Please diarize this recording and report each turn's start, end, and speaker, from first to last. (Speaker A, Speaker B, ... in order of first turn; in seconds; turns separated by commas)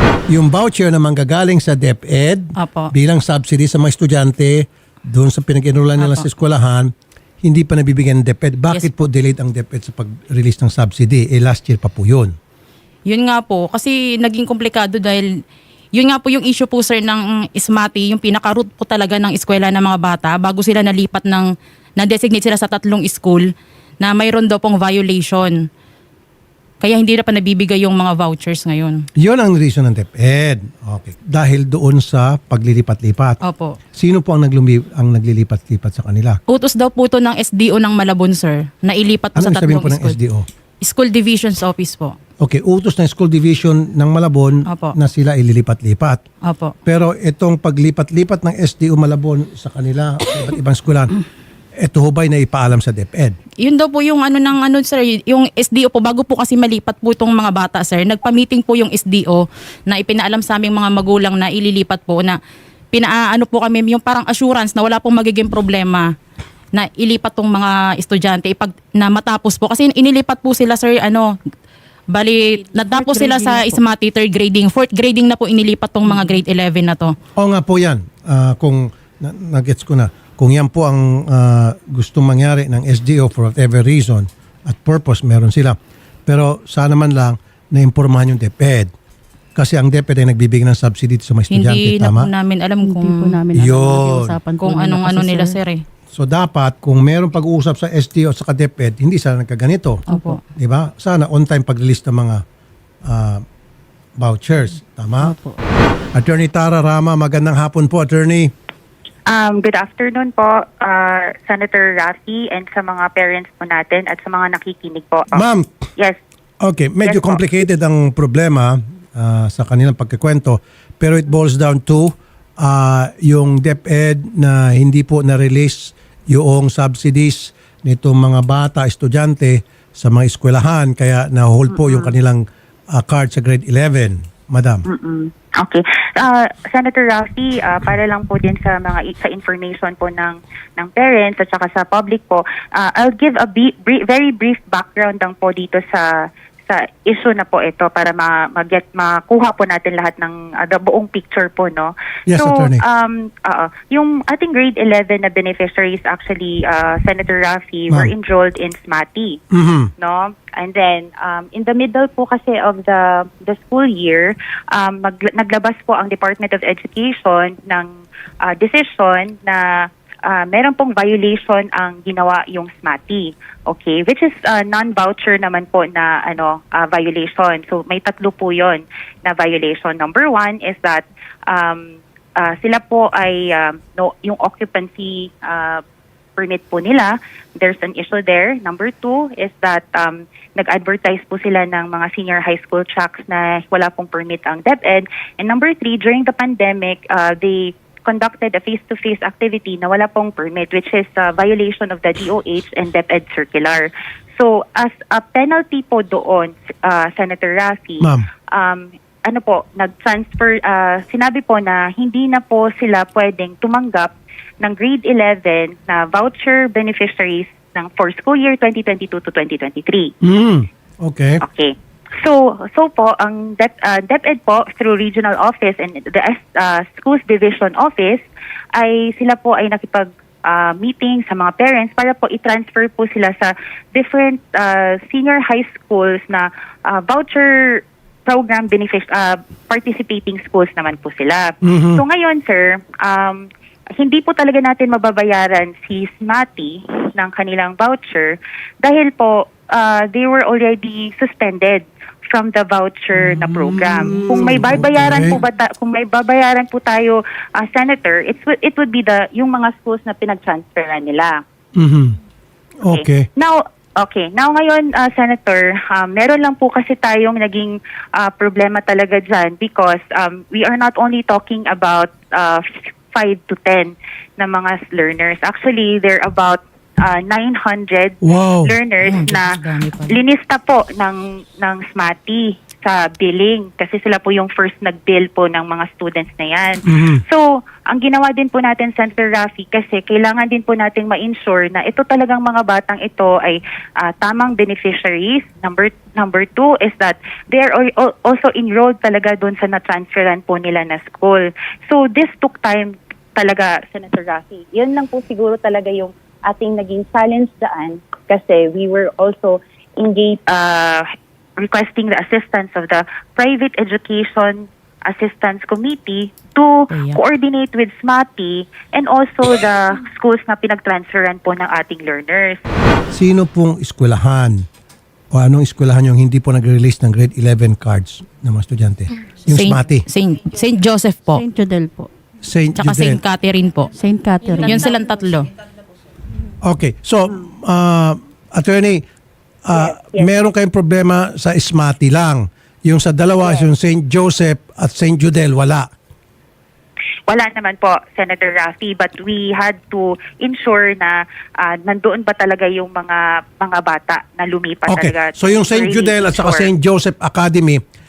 Speaker A: 0.3-6.9, Speaker B: 2.6-2.9, Speaker B: 6.0-6.3, Speaker A: 7.4-12.3, Speaker B: 8.7-9.0, Speaker B: 13.1-15.2, Speaker B: 15.9-23.5, Speaker B: 24.0-25.6, Speaker B: 26.8-29.0, Speaker A: 29.2-33.4, Speaker B: 33.4-33.8, Speaker A: 34.0-36.4, Speaker B: 36.5-40.2, Speaker A: 39.4-40.5, Speaker B: 40.8-42.2, Speaker A: 42.4-46.2, Speaker B: 44.7-44.9, Speaker B: 46.5-46.7, Speaker A: 46.9-51.1, Speaker A: 51.8-53.4, Speaker B: 53.6-62.4, Speaker B: 62.9-66.1, Speaker B: 66.7-71.3, Speaker B: 72.1-77.2, Speaker C: 72.9-73.8, Speaker A: 77.4-88.9, Speaker A: 89.6-92.3, Speaker B: 91.5-93.4, Speaker C: 92.8-95.6, Speaker A: 93.5-94.4, Speaker B: 94.6-95.8, Speaker A: 96.1-102.4, Speaker C: 100.1-100.4, Speaker B: 100.1-100.4, Speaker A: 103.0-103.4, Speaker A: 104.2-105.3, Speaker C: 105.2-105.6, Speaker A: 106.1-108.5, Speaker D: 109.3-115.4, Speaker A: 115.3-115.7, Speaker A: 116.6-134.8, Speaker D: 117.0-117.4, Speaker D: 131.7-132.2, Speaker D: 134.9-146.1, Speaker D: 146.7-159.4, Speaker A: 152.3-152.8, Speaker A: 159.5-159.9, Speaker D: 160.0-185.8, Speaker D: 186.4-220.1, Speaker A: 208.0-208.3, Speaker A: 220.2-221.4, Speaker D: 221.4-228.2, Speaker D: 228.8-243.4, Speaker A: 241.6-242.0, Speaker D: 244.0-261.4, Speaker A: 253.4-255.4, Speaker A: 261.8-262.1, Speaker A: 262.9-263.3, Speaker D: 262.9-279.6, Speaker A: 278.2-278.8, Speaker B: 279.0-280.2, Speaker D: 280.1-306.1, Speaker A: 286.9-287.2, Speaker D: 308.3-309.1, Speaker D: 310.5-311.1, Speaker D: 311.6-322.6, Speaker B: 316.9-317.2, Speaker A: 323.1-324.7, Speaker A: 325.3-330.1, Speaker B: 329.5-331.4, Speaker C: 331.4-332.1, Speaker A: 332.4-333.2, Speaker B: 332.8-333.9, Speaker C: 334.0-334.8, Speaker B: 334.6-335.5, Speaker A: 336.6-339.0, Speaker A: 339.7-345.9, Speaker D: 343.4-343.7, Speaker D: 347.3-356.7, Speaker A: 354.9-357.8